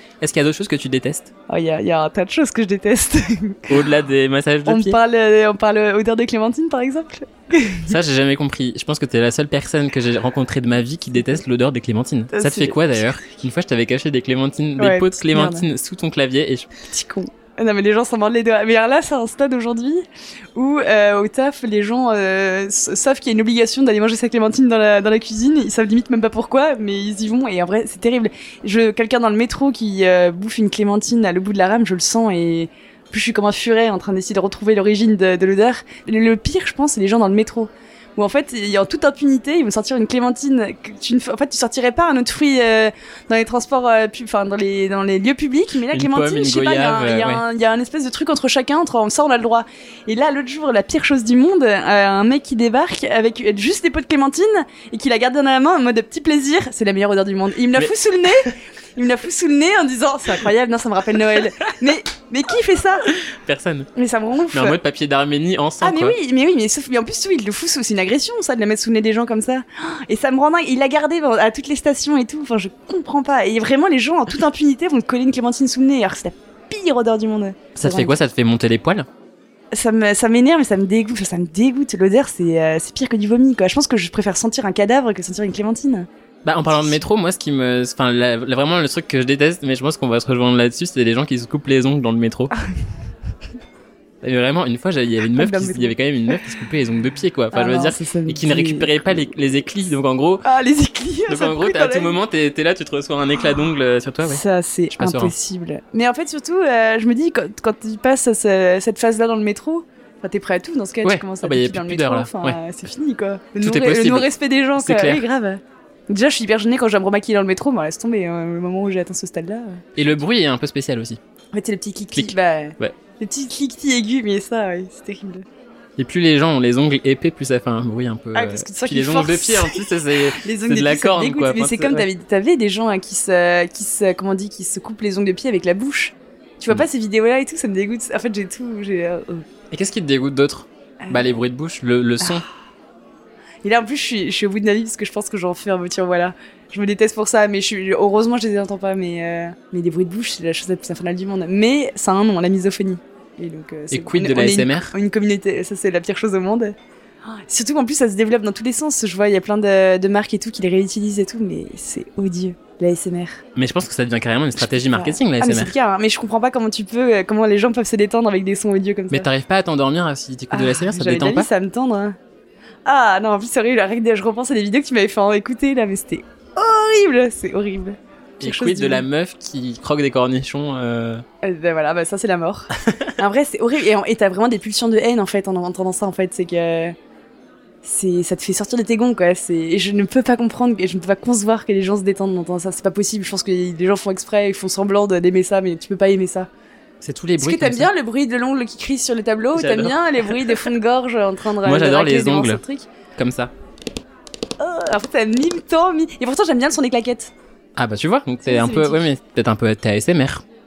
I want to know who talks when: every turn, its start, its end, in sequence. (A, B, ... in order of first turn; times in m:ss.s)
0:00.2-0:01.3 A
0:01.5-0:03.8 B
0:03.7-0:05.0 A
0:04.6-0:07.9 B
0:07.8-0:16.7 A
0:12.3-0:13.1 B
0:14.8-0:15.6 B
0:16.8-1:03.1 B
0:45.9-0:47.4 A
1:03.2-1:03.9 A
1:03.9-1:04.8 B
1:04.5-1:06.2 A
1:05.8-1:18.1 B
1:17.8-1:19.1 A
1:19.7-1:26.1 B
1:26.4-1:32.5 A
1:34.2-1:40.4 A
1:35.3-1:36.0 B
1:37.5-1:39.3 B
1:40.4-1:42.2 B
1:41.3-1:44.4 A
1:44.2-1:59.8 B
1:44.9-1:45.3 A
1:51.0-1:52.6 A
1:53.6-1:55.2 A
2:00.0-2:01.2 A
2:01.5-2:05.4 B
2:02.1-2:03.0 A
2:06.0-2:12.1 A
2:08.3-2:19.4 B
2:19.7-2:22.4 A
2:21.0-2:21.3 B
2:22.2-2:22.4 B
2:23.6-2:43.4 B
2:33.9-2:34.9 A
2:43.6-2:45.7 A
2:44.9-2:49.3 B
2:49.1-2:51.5 A
2:50.5-2:52.2 B
2:52.8-2:59.0 B
2:58.4-3:01.2 A
3:01.4-3:07.0 B
3:02.8-3:03.1 A
3:07.8-3:16.5 B
3:17.0-3:17.9 A
3:17.4-3:22.9 B
3:19.5-3:20.7 A
3:21.6-3:22.6 A
3:23.2-3:23.5 A
3:24.6-3:27.3 B
3:27.8-3:30.4 A
3:28.4-3:29.0 B